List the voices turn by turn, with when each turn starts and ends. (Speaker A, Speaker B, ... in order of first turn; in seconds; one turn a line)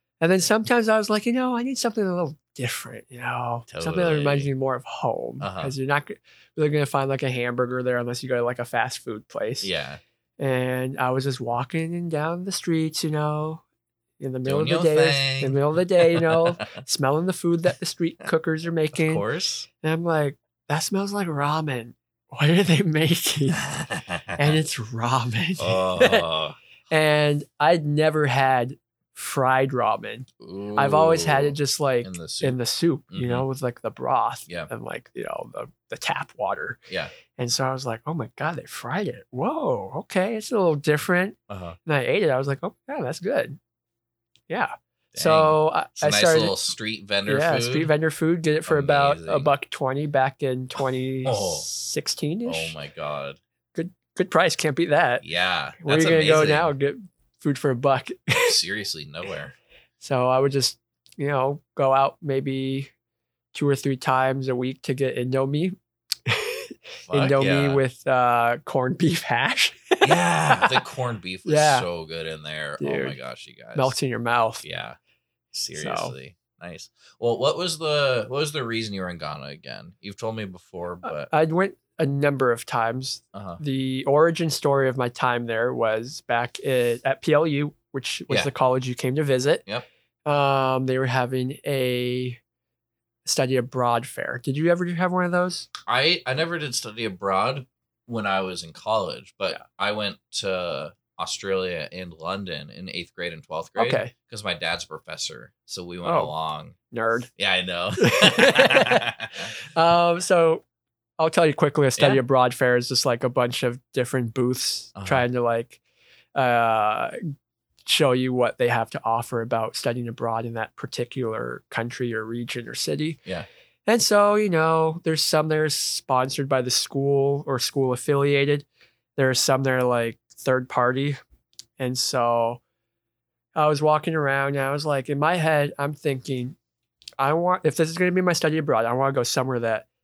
Speaker A: 0.2-9.7
Speaker B: 3.7-4.5
Speaker B: 5.4-5.7
Speaker B: 9.6-10.0
Speaker A: 10.4-13.6
Speaker A: 14.2-19.2
Speaker B: 14.4-16.7
Speaker B: 18.9-19.7
Speaker A: 19.8-23.6
Speaker B: 23.6-24.6
Speaker A: 24.4-26.2
Speaker B: 25.6-26.6
Speaker A: 26.9-36.8
Speaker B: 30.4-32.6
Speaker B: 33.1-33.4
Speaker A: 37.3-43.6
Speaker B: 41.5-41.8
Speaker A: 44.5-46.5
Speaker B: 45.1-47.9
Speaker A: 47.2-52.7
Speaker B: 48.6-49.5
Speaker B: 51.2-51.7
Speaker B: 52.5-53.4
Speaker A: 53.7-55.2
Speaker B: 55.2-56.7
Speaker A: 55.8-58.5
Speaker B: 58.3-59.5
Speaker A: 60.0-62.9
Speaker A: 63.5-65.7
Speaker A: 66.2-70.8
Speaker B: 67.1-67.8
Speaker B: 70.0-73.9
Speaker A: 71.4-71.9
Speaker A: 72.8-73.2
Speaker A: 73.7-74.6
Speaker B: 74.6-75.0
Speaker B: 75.5-81.3
Speaker A: 75.8-76.1
Speaker A: 81.0-89.6
Speaker B: 83.3-83.6
Speaker A: 90.2-92.4
Speaker A: 93.2-95.7
Speaker B: 95.9-106.8
Speaker A: 103.8-104.1
Speaker A: 106.0-106.3
Speaker A: 106.9-107.3
Speaker B: 107.3-109.5
Speaker A: 108.0-109.1
Speaker A: 109.6-110.6
Speaker A: 111.2-115.8
Speaker B: 114.9-115.2
Speaker A: 116.3-117.2
Speaker A: 117.8-123.2
Speaker A: 123.8-131.2
Speaker A: 131.8-132.6
Speaker A: 133.5-136.6
Speaker A: 137.2-139.8